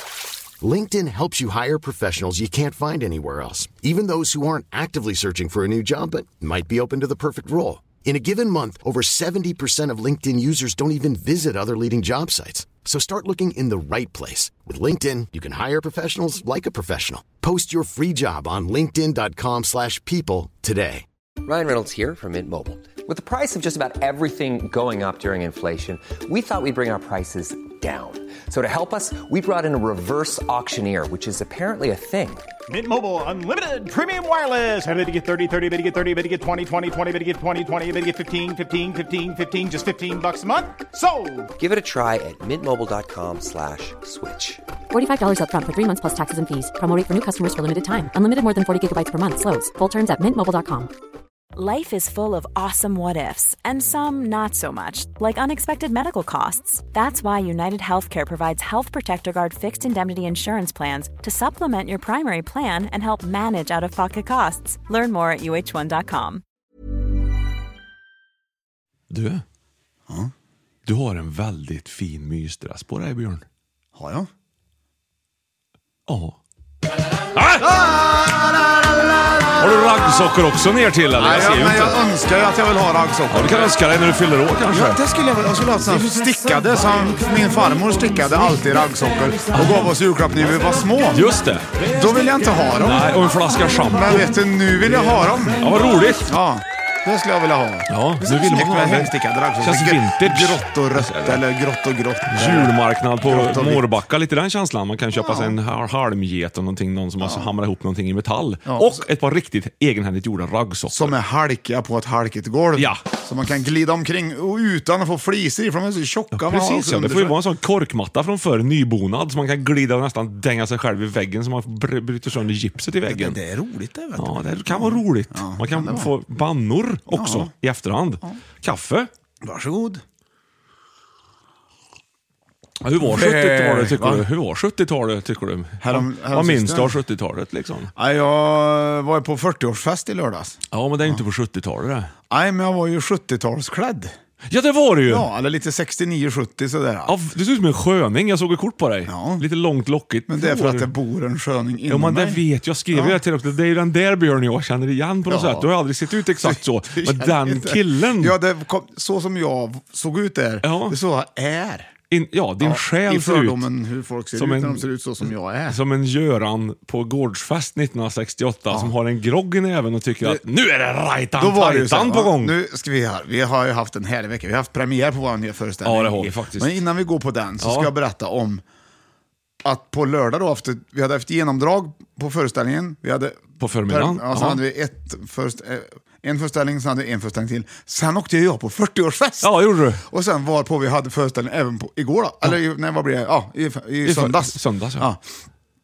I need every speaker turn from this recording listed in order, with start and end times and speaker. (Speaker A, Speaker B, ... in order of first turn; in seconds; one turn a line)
Speaker A: 0.6-21.1
Speaker B: 21.4-32.4
Speaker C: 32.7-41.4
Speaker B: 41.6-44.6
Speaker D: 44.9-50.9
Speaker E: 51.5-66.4
Speaker F: 69.1-69.4
Speaker F: 70.9-73.4
Speaker G: 74.0-74.3
Speaker F: 76.1-76.4
Speaker F: 77.3-77.7
Speaker G: 77.6-79.8
Speaker F: 79.6-82.0
Speaker G: 81.2-83.8
Speaker F: 83.3-85.0
Speaker G: 84.7-93.1
Speaker F: 89.5-89.9
Speaker F: 91.1-91.7
Speaker F: 92.8-94.3
Speaker G: 93.9-103.8
Speaker F: 95.6-96.3
Speaker F: 97.9-101.4
Speaker F: 102.3-111.2
Speaker G: 105.1-105.6
Speaker G: 107.2-107.5
Speaker G: 108.7-109.1
Speaker G: 110.9-117.4
Speaker F: 112.8-113.0
Speaker F: 116.3-123.4
Speaker G: 123.1-126.1
Speaker F: 124.2-129.1
Speaker G: 127.1-127.5
Speaker G: 129.4-130.0
Speaker F: 132.8-137.9
Speaker G: 133.0-134.3
Speaker G: 135.8-137.0
Speaker G: 138.0-141.2
Speaker F: 140.7-142.1
Speaker G: 142.3-144.2
Speaker F: 144.5-145.3
Speaker G: 145.1-147.1
Speaker F: 147.1-150.9
Speaker G: 149.1-149.4
Speaker G: 150.3-152.4
Speaker F: 151.9-158.4
Speaker G: 152.9-153.2
Speaker G: 155.3-155.7
Speaker G: 156.4-161.9
Speaker F: 160.6-161.0
Speaker F: 162.1-163.7
Speaker G: 162.6-165.8
Speaker F: 164.3-164.9
Speaker F: 165.7-172.6
Speaker G: 171.4-178.6
Speaker F: 175.8-176.8
Speaker F: 177.6-177.9
Speaker G: 179.6-195.2
Speaker F: 183.6-184.6
Speaker F: 189.4-190.0
Speaker F: 194.0-195.1